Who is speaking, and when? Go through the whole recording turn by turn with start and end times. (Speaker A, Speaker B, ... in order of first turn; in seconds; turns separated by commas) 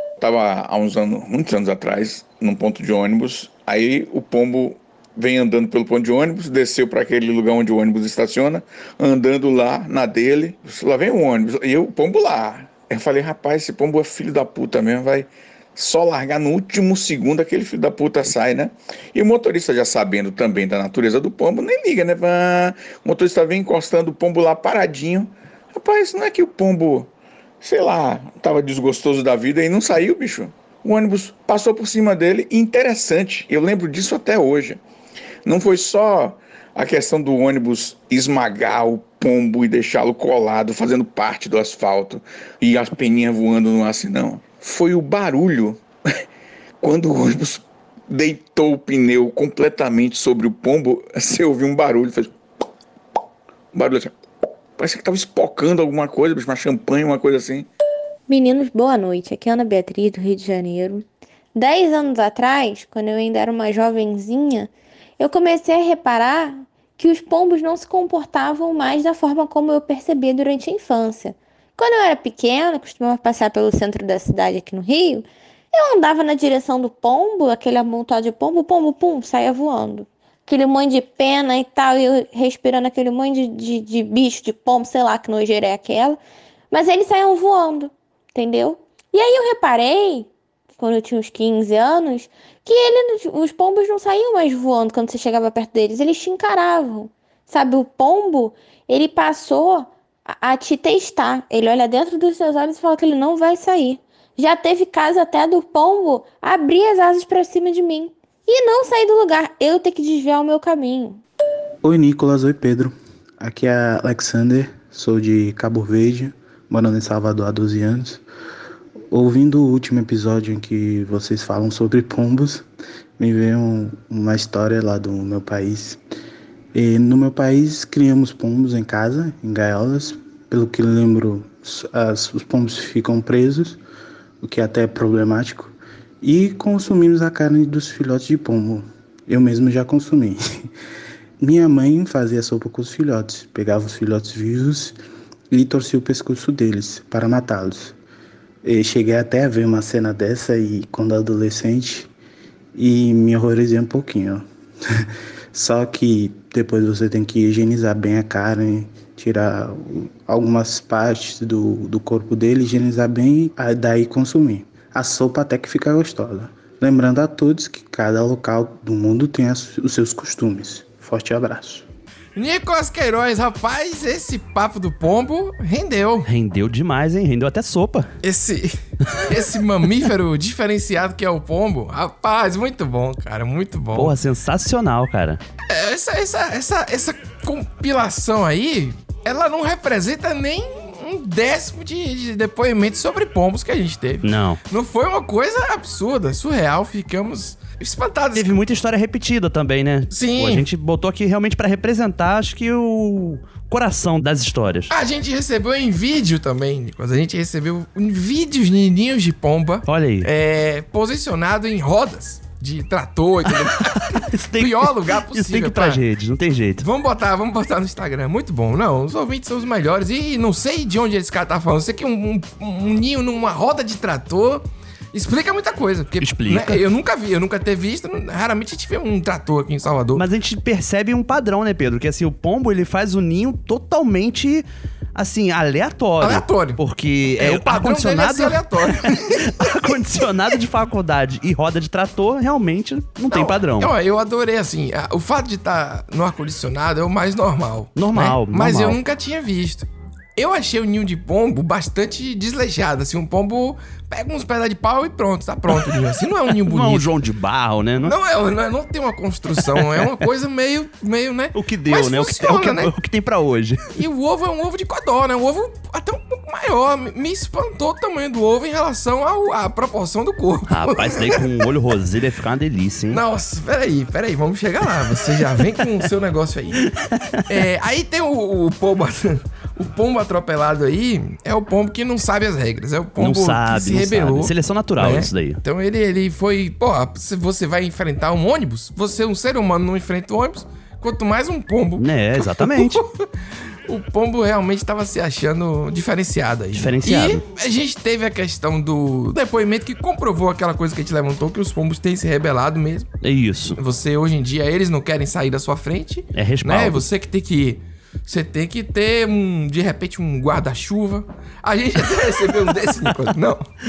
Speaker A: 0.2-27.1, Speaker A: 27.6-34.8, Speaker A: 35.4-45.8, Speaker A: 46.8-52.3, Speaker A: 53.7-54.1, Speaker A: 54.8-57.7, Speaker B: 58.3-86.2, Speaker B: 86.7-111.2, Speaker C: 111.8-118.2, Speaker C: 119.1-122.7, Speaker C: 123.2-126.0, Speaker C: 126.7-133.8, Speaker C: 134.4-140.7, Speaker C: 141.4-145.0, Speaker C: 145.5-147.9, Speaker C: 148.6-152.1, Speaker C: 152.7-171.9, Speaker D: 172.3-176.3, Speaker E: 176.3-178.1, Speaker D: 178.2-184.1, Speaker E: 183.9-185.4, Speaker D: 185.7-198.5, Speaker E: 194.2-194.6, Speaker E: 198.3-204.9, Speaker D: 200.1-200.7, Speaker D: 204.9-216.0, Speaker E: 209.9-210.3, Speaker E: 214.0-216.8, Speaker D: 216.8-230.2, Speaker E: 226.2-226.8, Speaker E: 230.1-243.9, Speaker D: 236.2-236.8, Speaker D: 237.3-239.7, Speaker D: 243.3-257.1, Speaker E: 247.9-249.0, Speaker E: 256.5-258.1, Speaker D: 258.0-262.9, Speaker E: 259.8-260.1, Speaker E: 261.5-263.8, Speaker D: 263.9-271.6, Speaker E: 270.7-273.2, Speaker D: 273.1-276.8, Speaker D: 277.5-293.2, Speaker E: 283.2-285.6, Speaker E: 292.0-293.0, Speaker D: 293.9-303.1, Speaker E: 296.7-297.4, Speaker E: 303.2-303.8, Speaker D: 303.8-313.6, Speaker E: 306.3-307.0